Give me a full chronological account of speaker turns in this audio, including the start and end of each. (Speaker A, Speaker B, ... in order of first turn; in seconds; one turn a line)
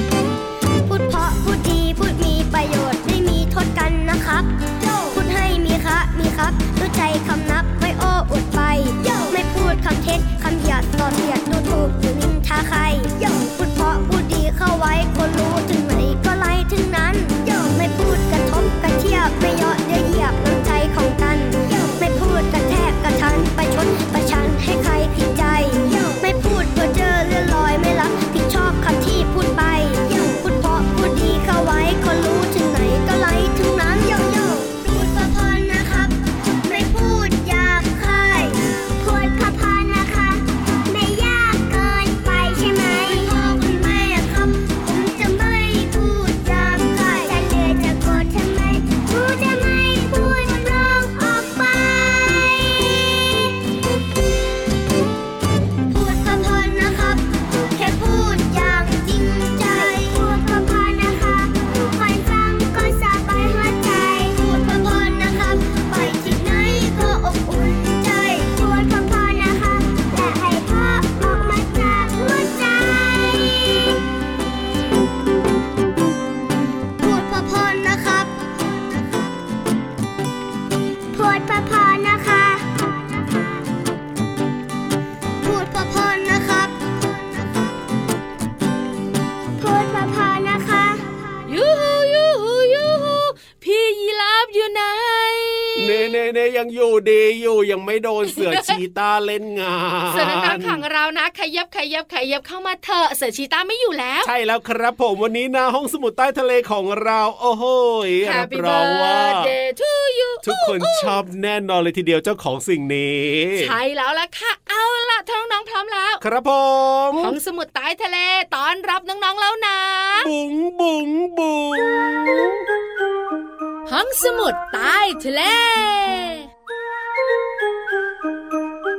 Speaker A: 0.9-53.5
Speaker A: 55.9-74.0
Speaker A: 77.0-78.6
Speaker A: 81.1-82.9
Speaker A: 85.4-87.3
Speaker A: 89.6-91.1
Speaker B: 91.5-96.2
Speaker C: 95.8-100.8
Speaker B: 98.3-98.8
Speaker B: 100.1-104.3
Speaker C: 104.2-109.5
Speaker B: 108.2-111.1
Speaker C: 110.4-113.7
Speaker B: 113.6-116.2
Speaker C: 116.2-117.4
Speaker B: 117.2-120.3
Speaker C: 120.2-122.6
Speaker B: 123.9-126.5